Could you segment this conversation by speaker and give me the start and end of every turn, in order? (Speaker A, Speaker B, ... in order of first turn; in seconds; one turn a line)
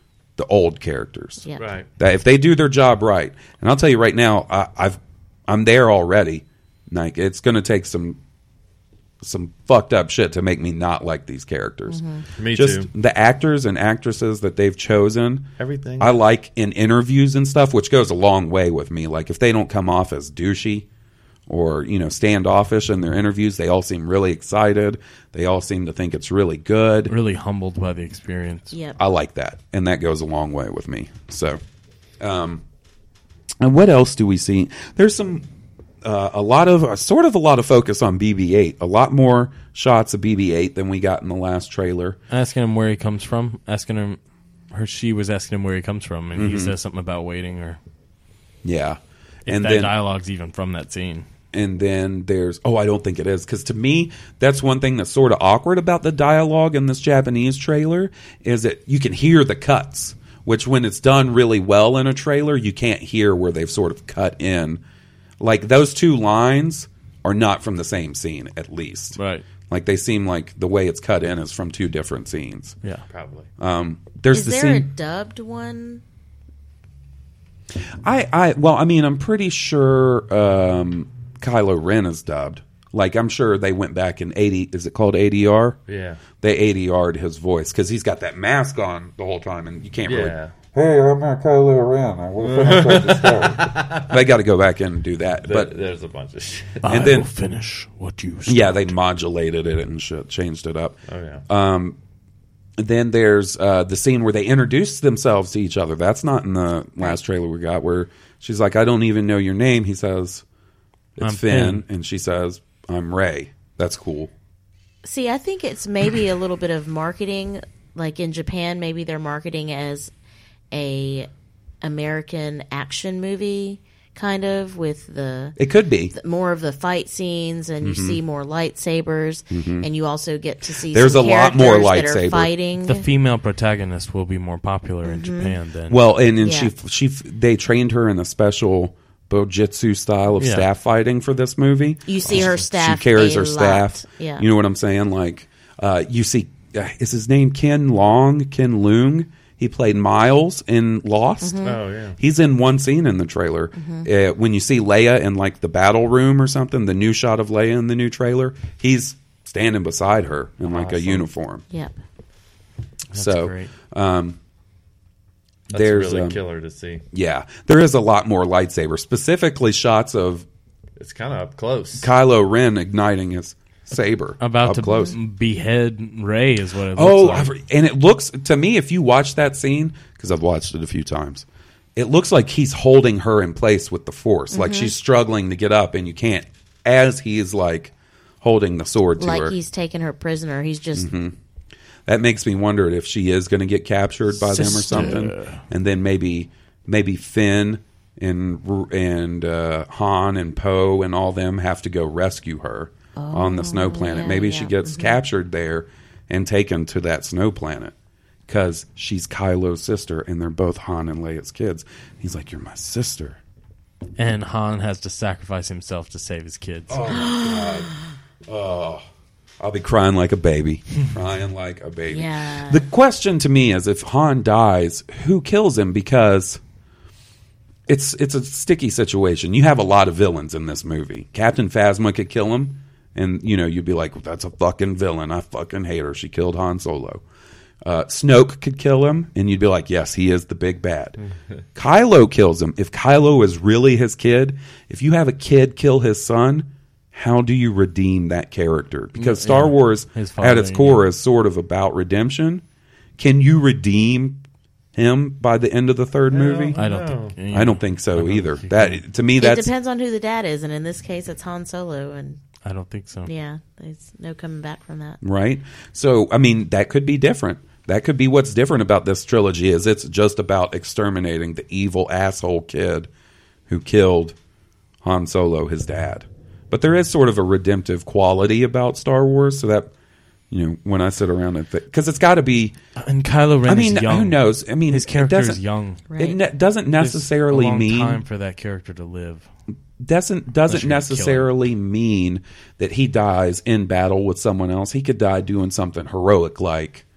Speaker A: 0.4-1.5
Speaker B: 1.6-1.9
Speaker A: 2.0-8.2
Speaker A: 9.2-20.9
Speaker C: 11.9-12.2
Speaker B: 12.4-12.9
Speaker B: 15.6-16.1
Speaker A: 21.5-27.1
Speaker D: 27.1-28.7
Speaker C: 28.7-29.0
Speaker A: 29.0-31.6
Speaker A: 32.2-32.6
Speaker A: 33.6-35.5
Speaker A: 36.0-42.2
Speaker D: 42.3-44.2
Speaker D: 44.7-47.8
Speaker A: 46.4-46.7
Speaker A: 48.6-49.9
Speaker D: 49.5-51.3
Speaker A: 51.5-64.8
Speaker A: 65.4-72.8
Speaker D: 69.2-69.4
Speaker B: 73.1-73.5
Speaker A: 73.6-74.9
Speaker C: 74.3-76.0
Speaker A: 78.0-85.8
Speaker B: 85.9-86.2
Speaker A: 86.4-95.8
Speaker B: 90.0-90.5
Speaker B: 92.4-94.2
Speaker B: 95.4-96.9
Speaker D: 96.8-98.9
Speaker A: 96.9-97.3
Speaker A: 98.5-102.0
Speaker B: 101.1-101.4
Speaker A: 102.8-110.4
Speaker A: 111.2-114.3
Speaker D: 111.2-111.8
Speaker C: 115.0-120.1
Speaker C: 120.7-121.3
Speaker C: 121.8-125.6
Speaker A: 125.6-126.1
Speaker C: 126.1-133.1
Speaker A: 127.8-128.2
Speaker A: 129.5-129.9
Speaker A: 130.9-132.5
Speaker D: 132.9-136.0
Speaker C: 135.1-135.5
Speaker A: 135.9-161.7
Speaker C: 136.4-136.7
Speaker D: 140.4-140.7
Speaker C: 142.1-144.5
Speaker C: 151.4-151.8
Speaker B: 151.6-152.2
Speaker C: 153.8-154.1
Speaker B: 160.6-161.2
Speaker D: 163.1-163.7
Speaker A: 163.1-164.4
Speaker A: 165.7-166.4
Speaker B: 165.7-167.0
Speaker A: 167.1-170.5
Speaker B: 171.0-172.1
Speaker A: 172.0-175.2
Speaker D: 174.4-177.5
Speaker C: 174.9-175.1
Speaker A: 176.9-189.6
Speaker C: 184.5-184.9
Speaker C: 189.2-191.1
Speaker A: 190.9-191.3
Speaker A: 192.1-207.9
Speaker D: 194.4-195.6
Speaker C: 203.2-205.2
Speaker A: 208.5-213.4
Speaker D: 214.2-217.0
Speaker A: 216.9-217.9
Speaker C: 217.1-218.0
Speaker A: 218.5-219.0
Speaker A: 219.6-226.6
Speaker C: 222.1-222.9
Speaker A: 227.9-237.2
Speaker A: 237.8-241.2
Speaker A: 241.8-252.6
Speaker D: 249.2-251.1
Speaker A: 253.2-254.4
Speaker A: 254.9-256.8
Speaker B: 256.3-257.4
Speaker D: 256.8-259.0
Speaker A: 257.5-259.7
Speaker C: 259.4-262.4
Speaker D: 262.6-263.3
Speaker C: 263.3-265.2
Speaker A: 265.2-273.1
Speaker A: 273.7-274.4
Speaker A: 275.0-279.9
Speaker A: 280.5-282.8
Speaker D: 283.0-286.0
Speaker A: 283.7-285.6
Speaker C: 286.1-286.4
Speaker A: 286.2-288.2
Speaker D: 287.0-289.5
Speaker A: 290.0-297.0
Speaker D: 290.7-291.5